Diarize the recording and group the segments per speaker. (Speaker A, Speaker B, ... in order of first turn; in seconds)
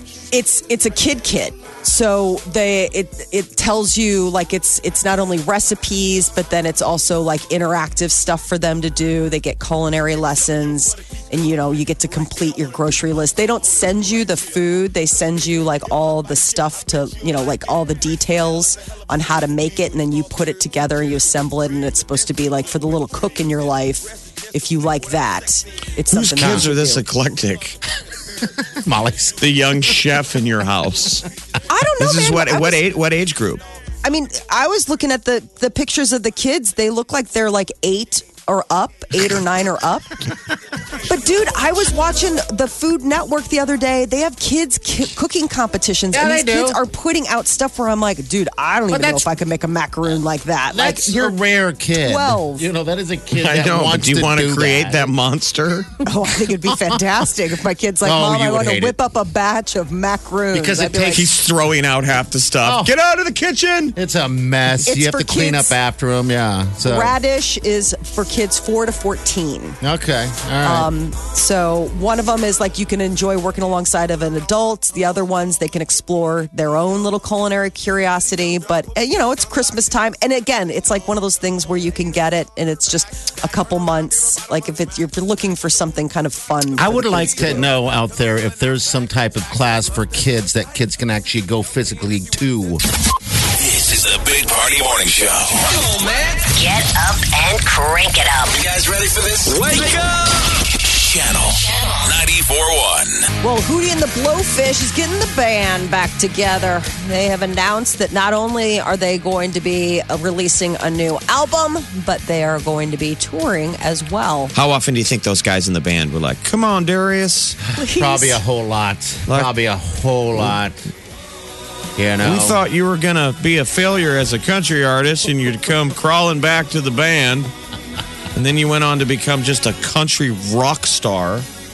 Speaker A: 0.3-27.0, 31.7-32.8, 34.0-40.1, 41.0-51.4, 52.0-52.7, 56.0-61.2, 64.8-65.7, 66.8-69.8, 70.6-87.7, 103.4-114.5, 117.7-118.4
Speaker B: 26.1-27.8, 29.4-31.3, 32.0-33.6, 53.4-56.0, 61.1-64.0, 114.5-117.6, 119.3-119.5, 122.2-127.5, 128.3-131.5
Speaker C: 26.4-26.7, 28.4-29.4, 46.1-46.8, 48.9-49.3, 50.7-55.1, 56.7-57.0, 58.0-59.0, 60.5-61.3, 62.6-62.9, 64.0-67.2, 69.8-70.9, 86.8-92.8, 117.8-120.8, 122.0-122.6
Speaker D: 93.5-96.4, 98.5-103.3
Speaker E: 96.5-98.6, 101.5-102.1